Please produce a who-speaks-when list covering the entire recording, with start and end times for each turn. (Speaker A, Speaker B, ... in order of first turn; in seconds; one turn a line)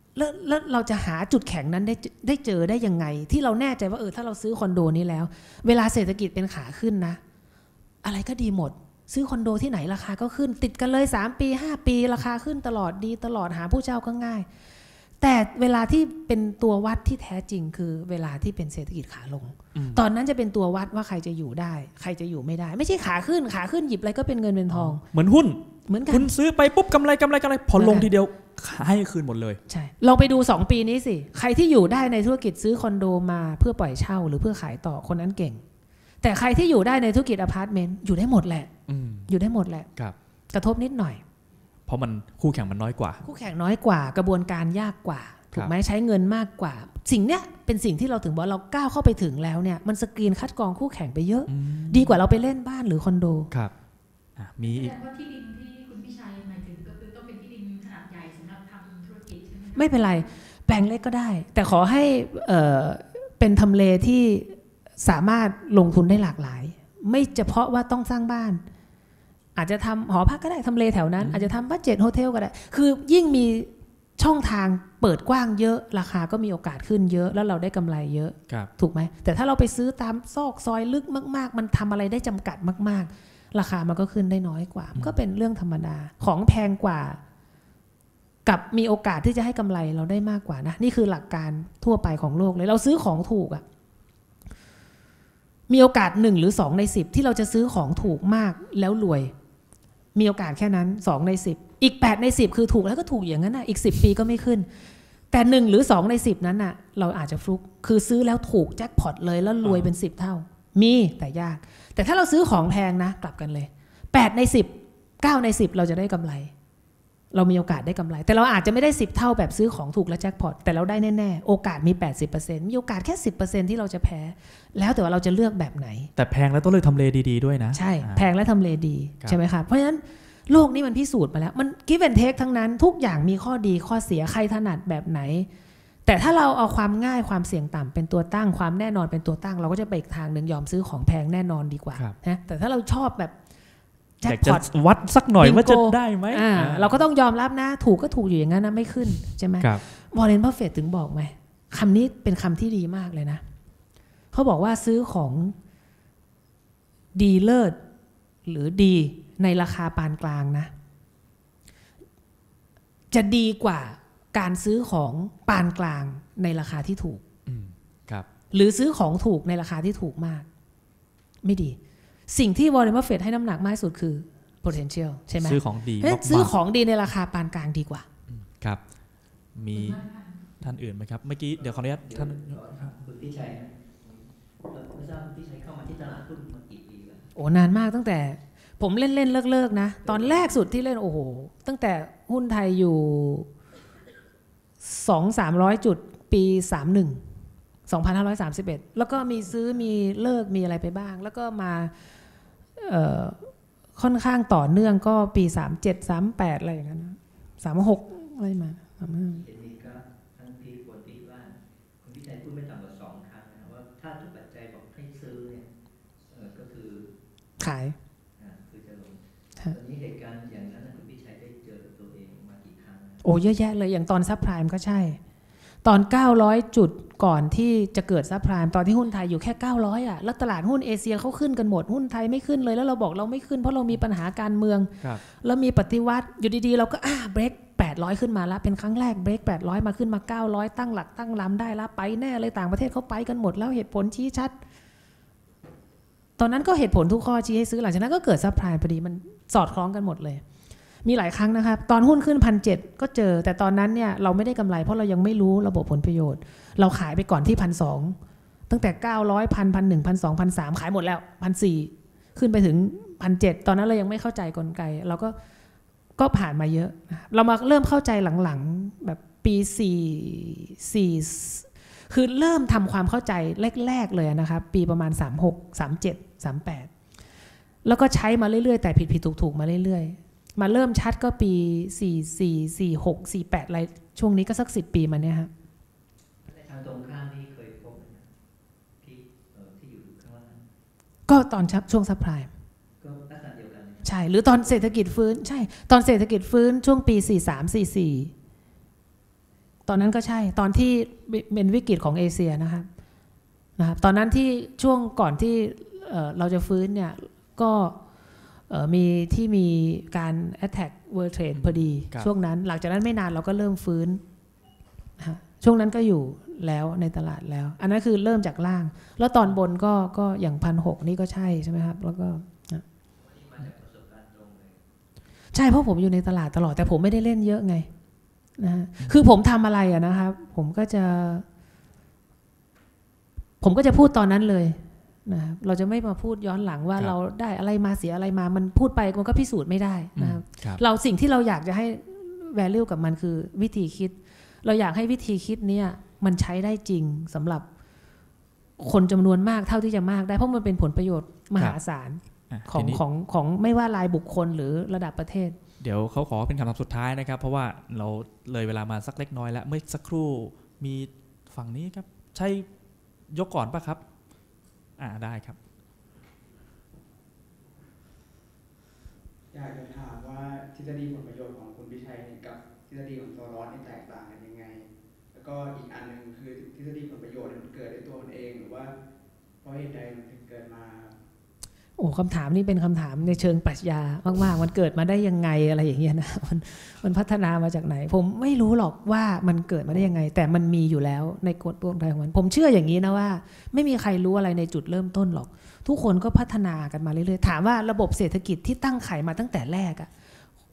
Speaker A: 0.1-7.2
Speaker A: 8.0-14.5
Speaker A: 15.2-25.0
Speaker B: 19.8-20.0
Speaker B: 24.7-29.6
Speaker A: 25.9-26.3
Speaker A: 27.8-28.1
Speaker A: 29.7-35.6
Speaker A: 36.2-38.7
Speaker B: 38.9-39.3
Speaker A: 39.3-39.9
Speaker A: 40.5-41.2
Speaker B: 41.9-43.2
Speaker A: 43.2-53.5
Speaker B: 51.5-52.2
Speaker B: 54.4-55.0
Speaker C: 54.6-60.1
Speaker A: 59.8-68.6
Speaker A: 69.6-87.2
Speaker B: 71.2-71.5
Speaker A: 88.5-93.6
Speaker A: 95.7-99.3
Speaker A: 100.2-104.7
Speaker A: 105.3-116.5
Speaker B: 109.6-109.9
Speaker A: 117.3-126.1
Speaker B: 126.2-128.3
Speaker A: 127.7-135.5
Speaker A: 136.1-143.3
Speaker A: 144.2-144.7
Speaker B: 144.3-146.9
Speaker A: 145.4-153.4
Speaker A: 154.3-155.6
Speaker A: 157.2-157.8
Speaker A: 158.5-160.7
Speaker A: 163.1-167.2
Speaker B: 167.5-168.3
Speaker A: 168.5-170.5
Speaker A: 171.4-171.8
Speaker A: 172.3-178.1
Speaker B: 175.4-176.5
Speaker B: 178.3-178.8
Speaker B: 179.6-180.0
Speaker C: 179.7-180.4
Speaker B: 180.6-182.9
Speaker D: 181.5-187.3
Speaker A: 187.3-193.5
Speaker A: 194.8-197.2
Speaker A: 197.9-201.9
Speaker A: 202.8-203.4
Speaker A: 204.0-209.4
Speaker D: 209.3-215.7
Speaker D: 216.3-217.1
Speaker A: 217.6-217.9
Speaker D: 218.4-223.2
Speaker A: 223.2-225.2
Speaker A: 225.8-244.6
Speaker A: 246.4-250.4
Speaker A: 251.0-258.2
Speaker A: 258.7-265.4
Speaker A: 266.2-276.9
Speaker A: 277.9-285.5
Speaker D: 286.5-288.3
Speaker D: 289.0-290.7
Speaker A: 291.3-292.5
Speaker D: 293.0-294.8
Speaker A: 294.0-298.3
Speaker A: 299.9-302.9
Speaker A: 303.8-308.0
Speaker A: 308.7-314.2
Speaker B: 311.5-312.3
Speaker A: 315.2-322.8
Speaker D: 323.2-324.8
Speaker A: 325.5-327.9
Speaker A: 328.6-331.4
Speaker A: 333.6-347.7
Speaker B: 340.2-340.8
Speaker A: 348.8-355.6
Speaker B: 352.5-353.0
Speaker B: 355.8-362.7
Speaker B: 363.3-364.0
Speaker B: 365.0-365.6
Speaker E: 369.5-378.9
Speaker E: 379.6-381.2
Speaker A: 382.0-400.1